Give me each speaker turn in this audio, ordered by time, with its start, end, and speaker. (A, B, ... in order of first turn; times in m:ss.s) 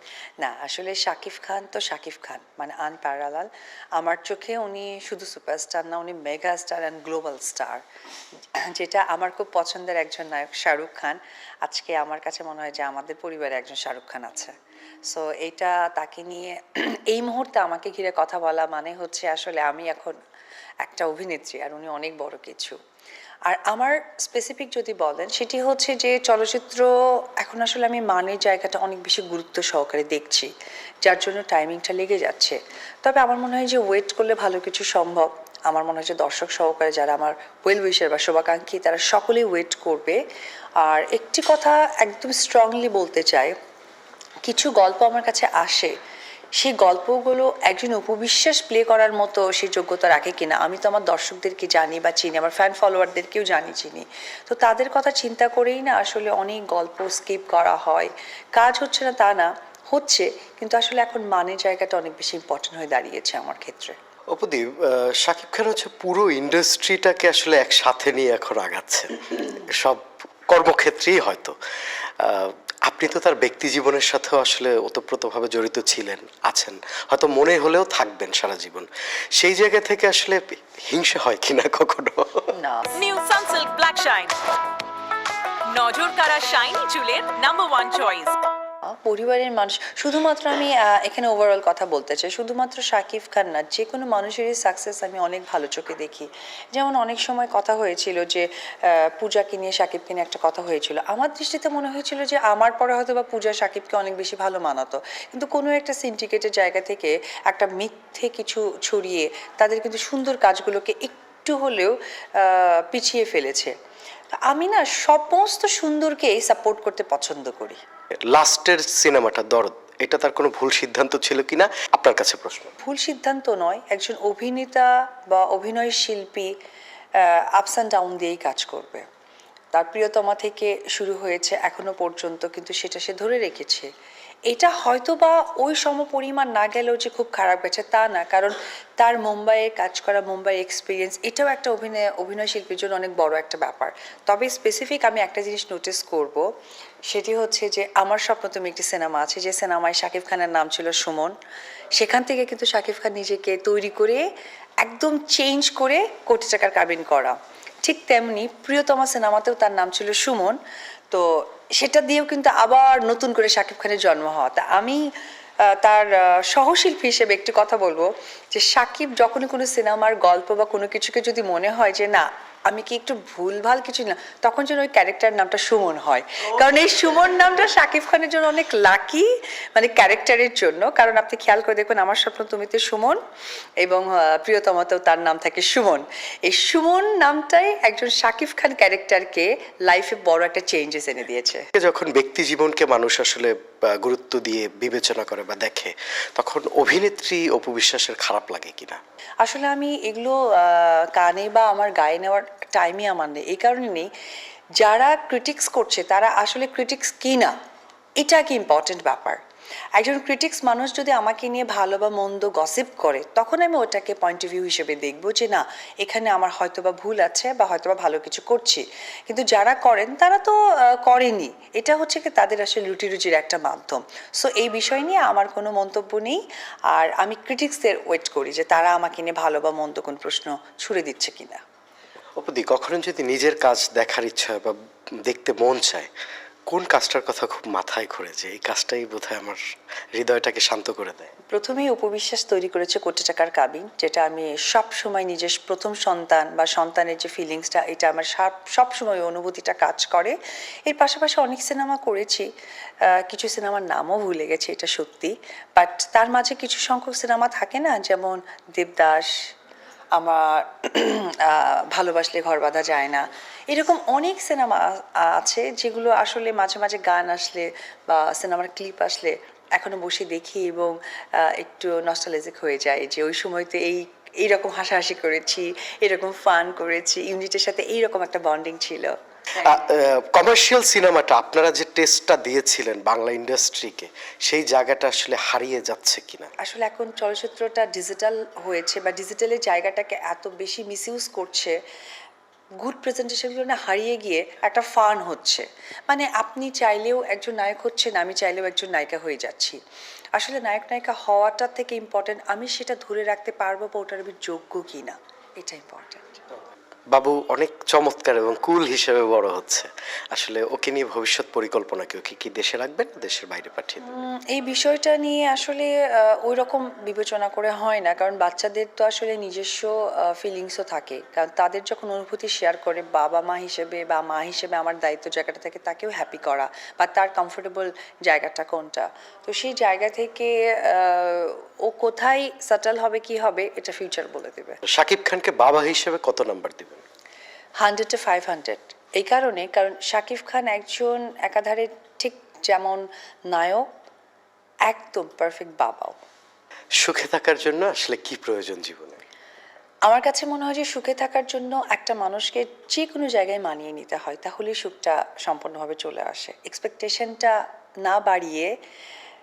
0:00.4-0:07.8 A
0:08.6-0:14.5 A
0:15.1-0:20.2 A
0:20.8-0:22.8 A
0:23.5-0:26.9 A
0:27.4-0:30.5 A
0:31.0-0:40.2 A
0:40.8-0:43.5 A
0:44.4-0:46.0 A
0:46.6-1:04.0 A
1:04.3-1:11.6 B
1:12.2-1:22.5 B
1:22.6-1:22.9 A
1:23.0-1:24.3 C
1:25.7-1:28.3 C
1:29.0-1:38.5 A
1:39.2-1:53.7 A
1:54.4-1:57.8 A
1:58.3-2:02.7 B
2:02.8-2:06.5 A
2:07.5-2:09.0 A
2:09.7-2:13.9 A
2:14.5-2:26.4 A
2:27.1-2:31.3 A
2:32.0-2:34.2 A
2:34.8-2:40.6 A
2:41.1-2:45.0 A
2:45.7-3:03.2 A
3:03.8-3:11.6 A
3:11.8-3:19.0 B
3:19.4-3:24.1 A
3:24.8-3:27.5 A
3:28.2-3:29.4 A
3:30.0-3:51.6 A
3:52.4-3:56.1 B
3:56.7-3:59.6 B
4:00.2-4:01.3 B
4:01.5-4:10.4 A
4:10.9-4:12.5 A
4:13.1-4:19.3 A
4:20.2-4:39.7 A
4:39.6-4:46.5 B
4:46.6-4:51.8 A
4:52.8-4:59.8 A
5:00.4-5:06.4 A
5:07.1-5:14.0 B
5:14.0-5:34.8 A
5:34.9-5:37.0 B
5:37.8-5:43.9 A
5:44.9-5:46.2 A
5:47.0-5:49.2 B
5:50.0-5:58.8 A